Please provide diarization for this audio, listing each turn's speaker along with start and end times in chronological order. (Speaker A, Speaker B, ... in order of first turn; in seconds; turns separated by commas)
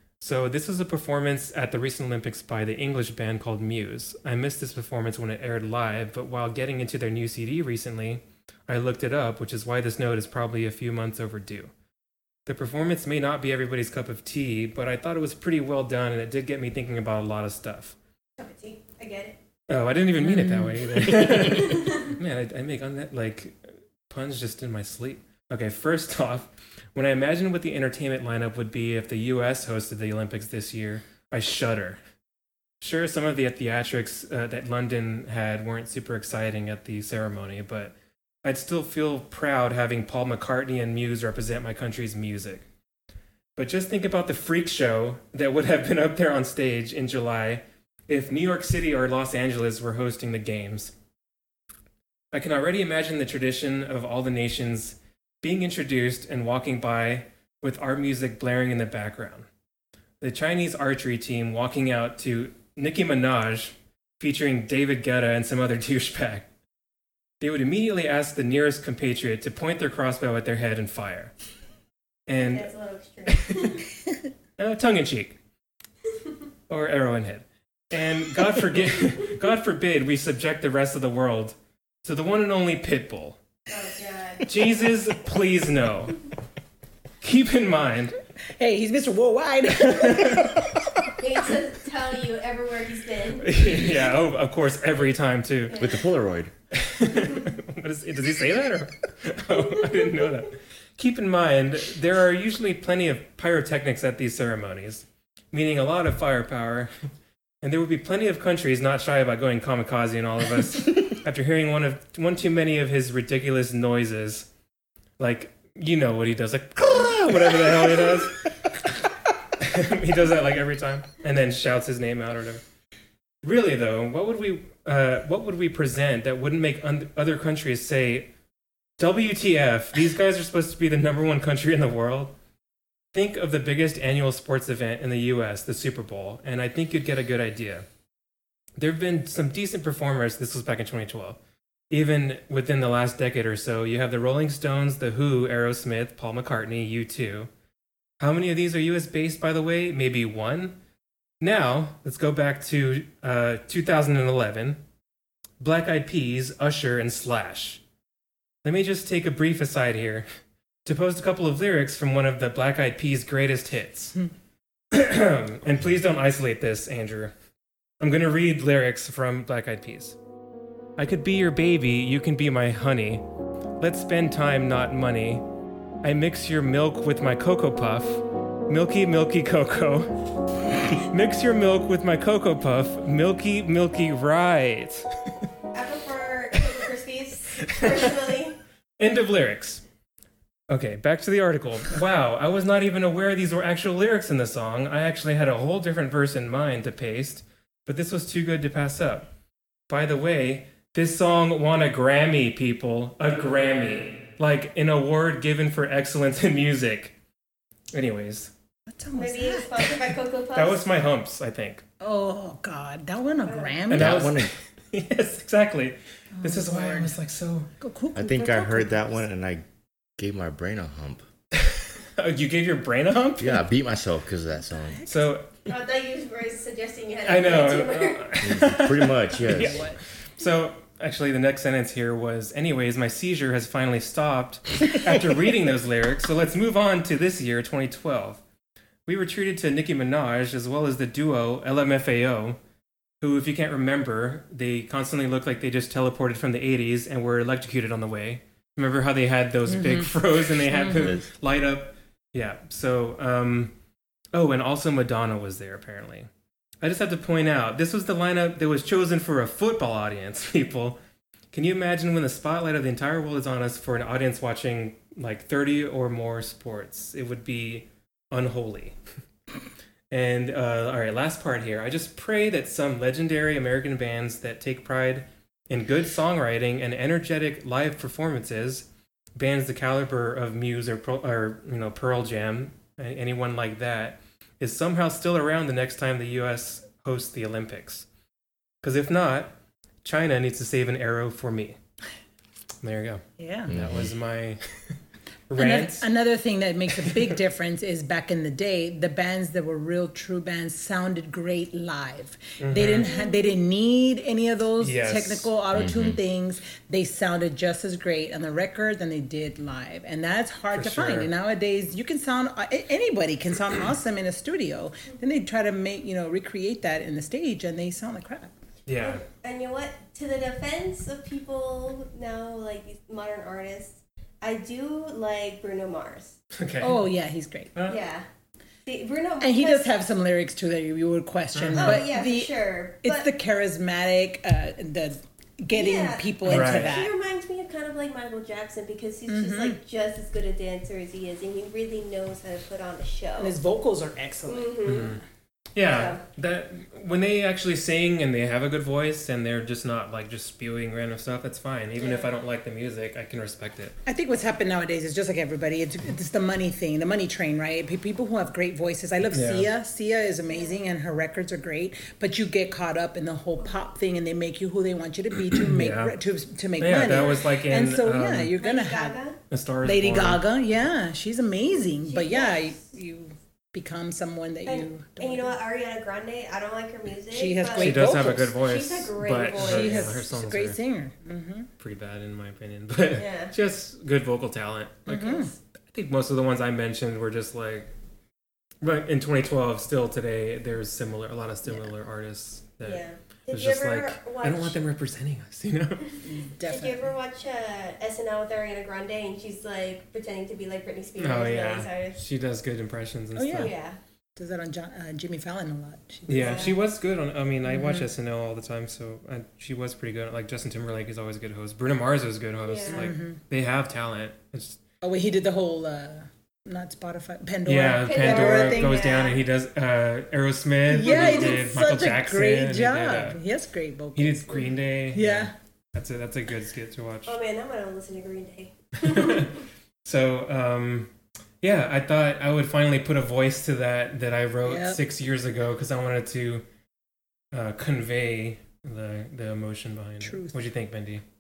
Speaker A: 0.2-11.7, Speaker A: 12.5-17.9, Speaker B: 18.4-19.4, Speaker A: 19.7-32.0, Speaker C: 20.2-21.1, Speaker B: 21.6-22.1, Speaker A: 32.8-42.6, Speaker A: 43.6-50.9, Speaker A: 52.3-59.5, Speaker A: 60.2-66.5, Speaker A: 67.4-71.3, Speaker A: 72.3-72.7, Speaker B: 72.4-73.8, Speaker A: 73.3-73.8, Speaker A: 74.6-75.4, Speaker A: 76.7-83.4, Speaker B: 83.7-84.5, Speaker A: 84.5-86.3, Speaker A: 87.2-88.2, Speaker C: 88.6-91.1, Speaker A: 89.8-90.5, Speaker B: 91.2-93.6, Speaker A: 93.4-95.8, Speaker B: 95.7-96.0, Speaker D: 95.8-96.5, Speaker A: 96.7-106.9, Speaker A: 107.6-114.5, Speaker A: 115.2-118.5, Speaker A: 119.6-122.6, Speaker A: 123.4-128.3, Speaker A: 129.0-132.3, Speaker A: 133.1-137.9, Speaker A: 138.8-141.4, Speaker A: 141.9-147.5, Speaker A: 148.2-150.8, Speaker A: 151.4-154.8, Speaker A: 155.6-157.8, Speaker A: 158.6-160.3, Speaker A: 160.8-164.2, Speaker A: 164.9-167.3, Speaker A: 168.0-170.2, Speaker A: 171.0-173.2, Speaker A: 173.8-175.4, Speaker A: 176.0-180.1, Speaker A: 180.9-185.1, Speaker B: 185.7-188.6, Speaker A: 187.6-188.1, Speaker A: 189.0-189.8, Speaker A: 190.7-199.3, Speaker A: 199.9-207.1, Speaker A: 207.9-208.5, Speaker C: 208.9-209.9, Speaker B: 209.1-210.8, Speaker A: 210.5-211.8, Speaker C: 212.0-214.2, Speaker B: 213.5-213.8, Speaker A: 213.9-217.7, Speaker D: 213.9-214.5, Speaker C: 216.4-217.1, Speaker C: 217.8-219.2, Speaker D: 218.2-219.6, Speaker D: 220.2-221.2, Speaker A: 221.6-223.6, Speaker D: 223.4-225.0, Speaker C: 224.9-225.3, Speaker A: 225.1-225.7, Speaker B: 225.7-228.4, Speaker A: 227.3-238.4, Speaker D: 228.4-229.9, Speaker C: 229.4-230.0, Speaker A: 239.1-242.6, Speaker A: 243.2-253.7, Speaker C: 249.7-251.2, Speaker A: 254.3-256.3, Speaker A: 256.8-261.0, Speaker A: 261.5-269.0, Speaker A: 270.1-288.1, Speaker A: 288.8-291.8, Speaker A: 292.8-294.6, Speaker C: 293.4-293.7, Speaker D: 293.7-294.1, Speaker A: 295.5-296.1, Speaker C: 295.6-318.5, Speaker A: 297.0-297.4, Speaker A: 302.6-303.2, Speaker B: 303.0-303.5, Speaker A: 304.8-305.5, Speaker D: 305.7-306.2, Speaker A: 310.7-311.3, Speaker A: 318.9-319.2, Speaker B: 319.0-326.4, Speaker A: 326.6-327.1, Speaker C: 326.8-327.7, Speaker A: 327.8-328.0, Speaker B: 327.9-328.3, Speaker B: 328.9-329.9, Speaker C: 329.4-337.1, Speaker A: 331.5-332.1, Speaker B: 331.7-333.3, Speaker B: 335.7-343.6, Speaker A: 336.4-337.0, Speaker C: 339.3-339.8, Speaker C: 343.4-345.1, Speaker B: 344.5-345.2, Speaker A: 344.9-345.2, Speaker A: 345.8-353.9, Speaker B: 345.9-346.2, Speaker B: 352.0-352.3, Speaker C: 354.1-369.2, Speaker A: 359.3-359.7, Speaker A: 365.6-366.2, Speaker A: 366.8-368.5, Speaker B: 367.0-367.4, Speaker B: 368.6-369.4, Speaker A: 369.5-370.4, Speaker C: 369.8-375.6, Speaker B: 372.0-372.8, Speaker B: 374.7-380.1, Speaker C: 377.3-378.6, Speaker A: 377.8-380.8, Speaker C: 379.6-381.7, Speaker A: 381.8-387.9, Speaker B: 383.1-383.5, Speaker C: 385.1-385.5, Speaker A: 388.8-396.2, Speaker C: 391.7-391.9, Speaker B: 392.8-394.8, Speaker C: 396.2-397.1, Speaker B: 396.7-402.2, Speaker A: 401.2-403.7, Speaker C: 403.4-403.7, Speaker B: 403.6-404.0, Speaker C: 404.4-406.7, Speaker A: 406.3-414.8, Speaker B: 406.3-406.8, Speaker C: 407.7-408.1, Speaker B: 412.7-413.1, Speaker C: 412.9-413.4, Speaker C: 415.0-419.0, Speaker A: 417.7-423.4, Speaker B: 418.0-419.4, Speaker C: 420.9-425.5, Speaker B: 421.0-421.6, Speaker A: 424.1-427.4, Speaker B: 427.3-429.6, Speaker A: 429.0-436.6, Speaker C: 434.6-435.0, Speaker A: 437.5-441.2, Speaker C: 440.2-440.5